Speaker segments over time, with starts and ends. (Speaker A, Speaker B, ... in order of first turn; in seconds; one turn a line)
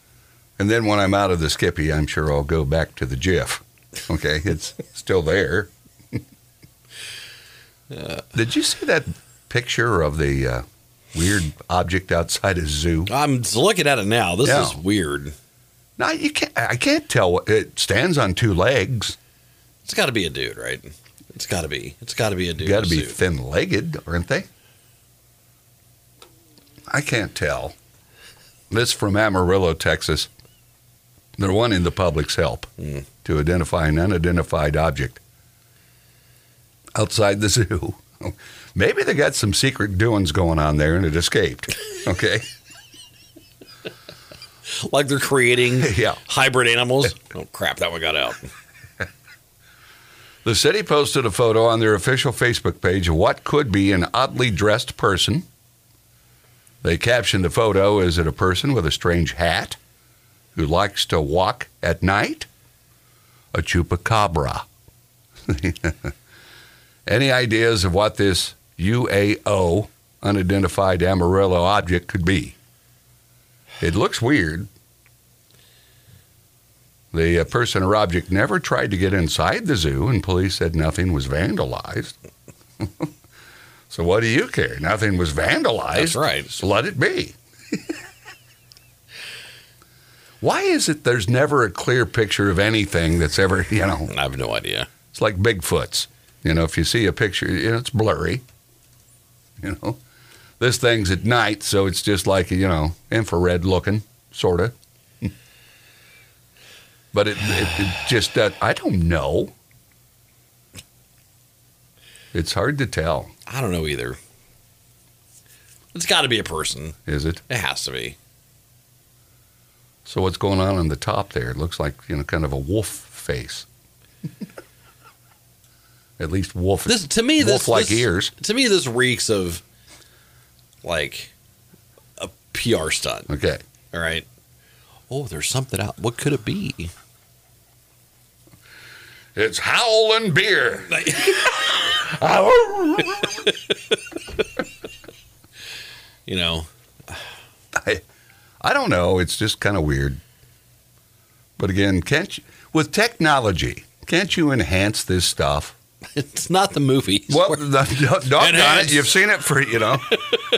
Speaker A: 0.6-5.7
Speaker A: 8.3-13.1
Speaker B: 13.1-15.3
Speaker A: 14.4-14.8
Speaker A: 16.0-19.1
Speaker B: 19.8-23.1
Speaker A: 22.6-24.5
Speaker A: 26.9-27.8
Speaker A: 28.7-30.3
Speaker A: 31.4-32.7
Speaker A: 33.2-35.2
Speaker A: 36.9-42.4
Speaker B: 44.8-48.5
Speaker A: 45.8-46.2
Speaker A: 50.4-55.5
Speaker A: 56.8-59.8
Speaker A: 60.5-62.5
Speaker A: 63.5-64.7
Speaker A: 65.5-66.1
Speaker A: 67.1-72.5
Speaker A: 73.8-74.7
Speaker A: 77.1-82.1
Speaker A: 82.8-83.1
Speaker A: 83.9-87.8
Speaker B: 85.9-86.5
Speaker A: 90.4-94.1
Speaker B: 94.1-94.9
Speaker A: 95.1-98.4
Speaker A: 99.6-100.0
Speaker A: 100.6-105.3
Speaker A: 107.1-109.5
Speaker A: 112.3-113.3
Speaker B: 113.5-114.2
Speaker B: 115.9-117.0
Speaker A: 117.1-117.4
Speaker B: 117.5-118.2
Speaker A: 120.1-123.7
Speaker A: 126.2-128.3
Speaker B: 126.8-129.6
Speaker B: 130.8-131.3
Speaker B: 132.2-133.3
Speaker A: 133.3-133.6
Speaker B: 133.9-134.2
Speaker B: 135.1-136.9
Speaker A: 139.3-143.4
Speaker B: 140.9-141.8
Speaker B: 146.3-146.7
Speaker A: 147.7-148.0
Speaker A: 148.6-150.2
Speaker A: 151.6-155.8
Speaker B: 156.1-157.6
Speaker A: 157.3-160.2
Speaker B: 158.3-159.1